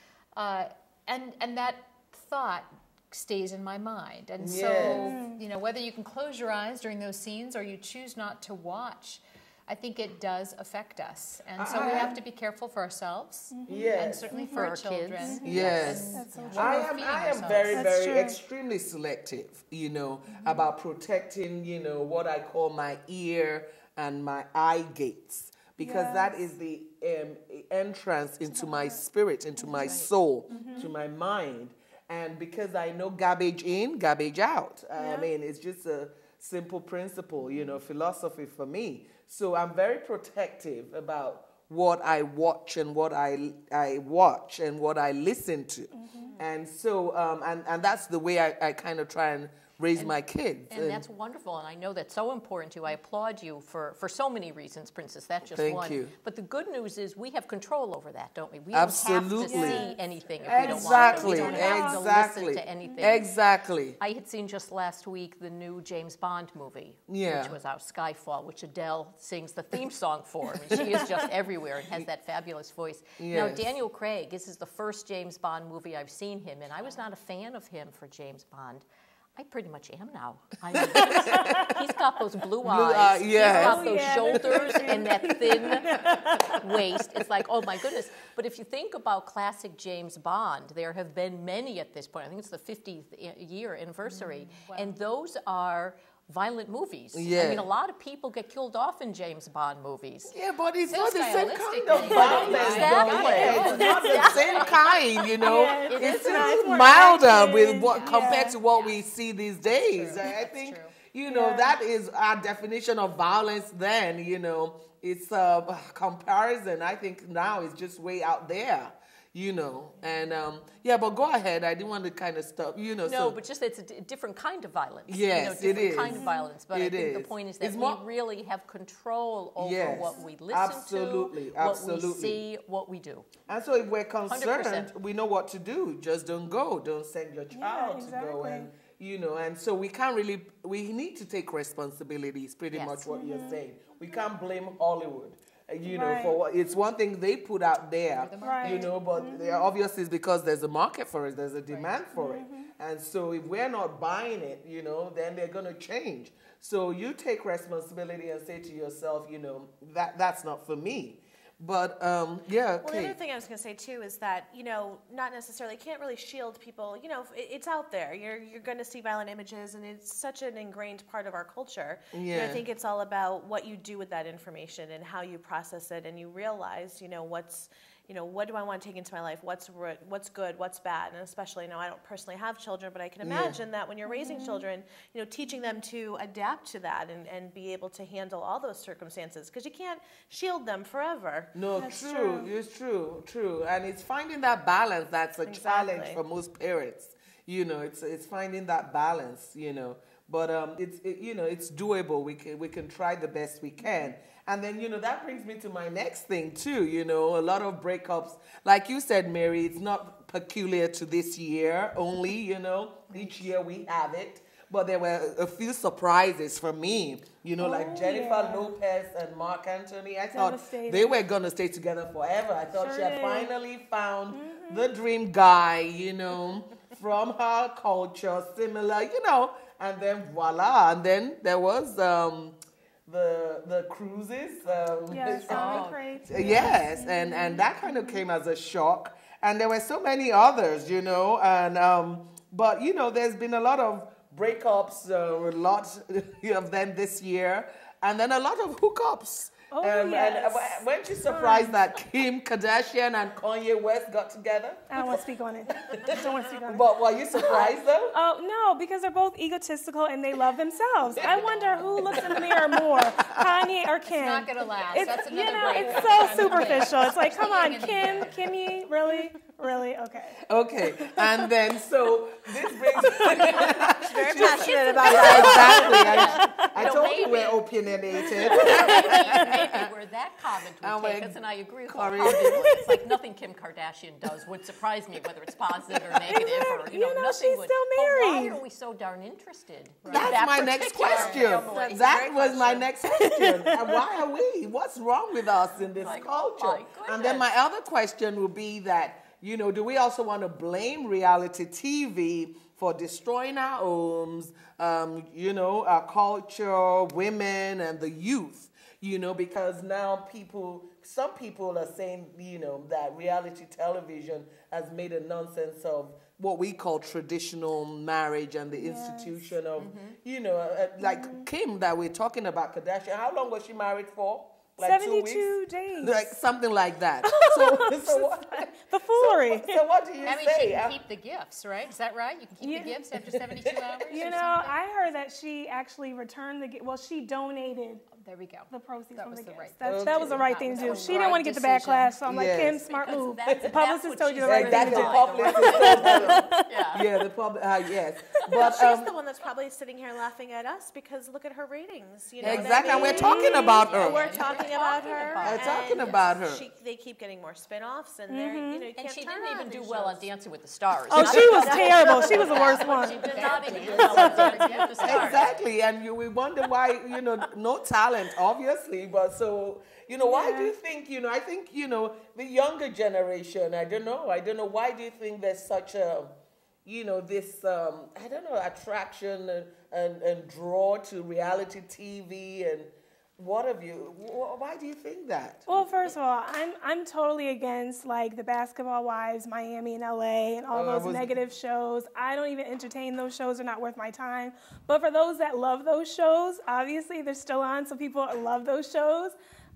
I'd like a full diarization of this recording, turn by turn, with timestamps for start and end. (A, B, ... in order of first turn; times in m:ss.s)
0:00.3-0:17.8 A
0:04.4-0:05.2 B
0:04.8-0:05.4 C
0:11.6-0:12.2 B
0:13.5-0:14.7 C
0:13.7-0:14.2 B
0:14.0-0:17.8 D
0:15.2-0:15.5 C
0:15.4-0:51.0 B
0:16.1-0:16.9 C
0:17.7-0:18.4 C
0:25.8-0:26.3 C
0:28.5-0:29.0 C
0:29.6-0:30.0 C
0:30.5-0:30.9 C
0:35.0-0:35.3 C
0:45.9-0:46.4 C
0:50.7-1:03.3 D
0:55.5-0:56.1 B
0:58.7-0:59.9 B
0:59.4-1:02.1 C
1:00.4-1:04.0 B
1:02.8-1:03.2 C
1:04.0-1:18.8 D
1:07.1-1:07.6 B
1:10.7-1:11.0 B
1:13.2-1:13.6 B
1:19.4-1:40.3 D
1:20.7-1:21.8 B
1:22.6-1:25.1 B
1:23.4-1:26.8 C
1:34.0-1:34.9 A
1:37.1-1:37.7 B
1:40.3-2:03.4 B
1:40.9-1:44.8 A
1:41.9-1:46.7 D
1:42.2-1:42.4 C
1:43.0-1:44.3 C
1:45.4-1:48.6 C
1:48.0-1:48.9 A
1:48.3-1:48.9 D
1:49.6-1:50.9 A
1:51.2-1:51.8 C
2:03.0-2:13.3 D
2:05.1-2:08.0 B
2:06.1-2:06.5 C
2:09.6-2:12.4 B
2:13.5-2:43.2 B
2:14.3-2:14.9 D
2:17.5-2:18.7 C
2:22.7-2:23.0 D
2:23.1-2:23.6 C
2:25.8-2:26.4 C
2:28.1-2:29.0 A
2:28.4-2:29.7 C
2:32.1-2:32.7 C
2:42.8-3:11.6 E
2:52.1-2:52.6 B
3:03.2-3:03.6 B
3:04.0-3:04.7 C
3:11.5-4:18.2 B
3:11.7-3:12.5 C
3:15.4-3:16.2 E
3:37.6-3:38.7 C
3:40.3-3:41.2 C
3:42.8-3:43.5 C
3:44.3-3:44.9 C
3:55.0-3:56.8 D
3:55.1-3:58.2 C
4:09.7-4:11.7 C
4:14.9-4:30.4 C
4:21.2-4:23.7 B
4:24.0-4:28.5 A
4:25.8-4:26.8 B
4:30.4-4:39.9 B
4:32.9-4:33.3 C
4:33.5-4:36.4 E
4:34.4-4:37.6 D
4:38.4-4:52.9 D
4:40.8-4:42.8 B
4:46.1-4:48.6 C
4:50.0-4:50.4 A
4:50.1-5:31.0 B
4:51.0-4:51.5 A
4:51.6-4:52.8 E
4:53.1-4:54.0 C
4:56.0-4:57.5 D
5:18.7-5:19.5 C
5:19.8-5:20.2 D
5:21.0-5:21.4 C
5:24.8-5:26.3 C
5:27.2-5:29.8 C
5:30.2-5:34.8 A
5:32.6-5:33.0 C
5:33.3-5:34.4 B
5:34.1-5:38.0 C
5:38.1-5:42.2 A
5:38.7-5:47.0 C
5:39.8-5:41.1 B
5:42.3-5:42.8 B
5:42.8-5:47.0 D
5:43.5-5:43.8 B
5:44.4-5:49.1 B
5:48.6-6:00.3 E
5:52.4-5:54.2 B
5:52.4-5:53.2 D
5:52.9-5:53.7 C
5:53.8-5:56.2 D
5:54.2-5:55.2 A
5:55.4-5:56.6 B
5:58.3-5:58.9 C
5:59.0-6:05.5 D
6:01.1-6:04.6 C
6:01.2-6:02.6 B
6:02.5-6:05.5 A
6:03.4-6:26.2 B
6:10.2-6:10.7 C
6:25.7-6:39.4 C
6:30.7-6:31.4 B